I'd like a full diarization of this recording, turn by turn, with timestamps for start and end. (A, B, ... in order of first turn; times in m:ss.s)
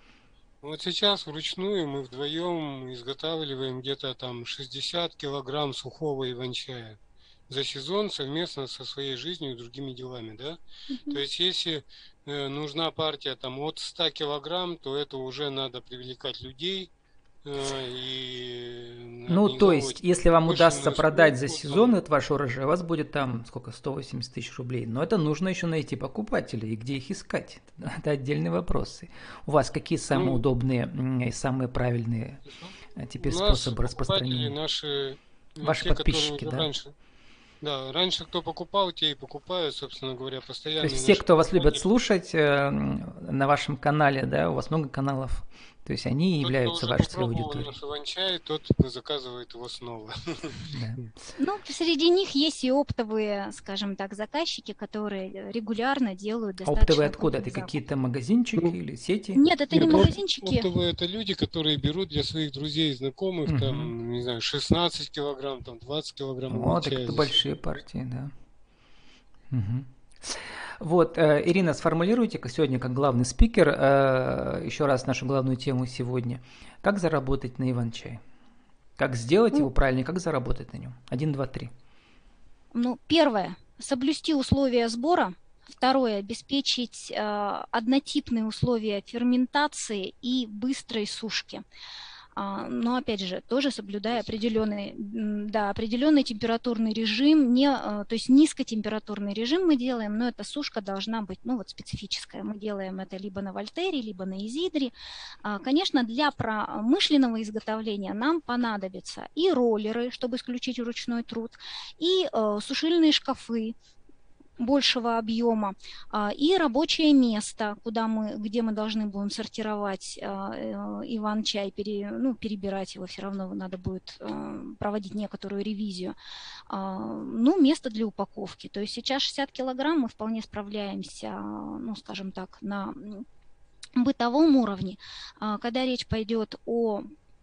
0:00.6-0:16.9 A
0:10.9-0:11.2 B
0:17.4-0:22.0 A
0:19.3-0:32.4 C
0:30.1-0:30.4 A
0:32.6-0:36.9 A
0:32.9-0:34.5 C
0:35.6-0:36.7 C
0:37.6-0:41.8 A
0:40.8-0:47.7 C
0:46.4-0:51.0 A
0:50.7-0:51.0 C
0:51.4-0:57.8 B
0:56.6-0:59.4 C
0:59.3-1:00.7 B
0:59.7-1:07.5 A
1:03.4-1:03.9 C
1:06.5-1:08.3 C
1:09.5-1:18.2 C
1:19.0-1:21.7 C
1:22.7-1:31.6 B
1:32.4-1:44.9 B
1:34.2-1:34.5 A
1:45.4-1:53.7 B
1:54.6-2:06.2 B
2:06.7-2:13.2 B
2:14.0-2:17.0 B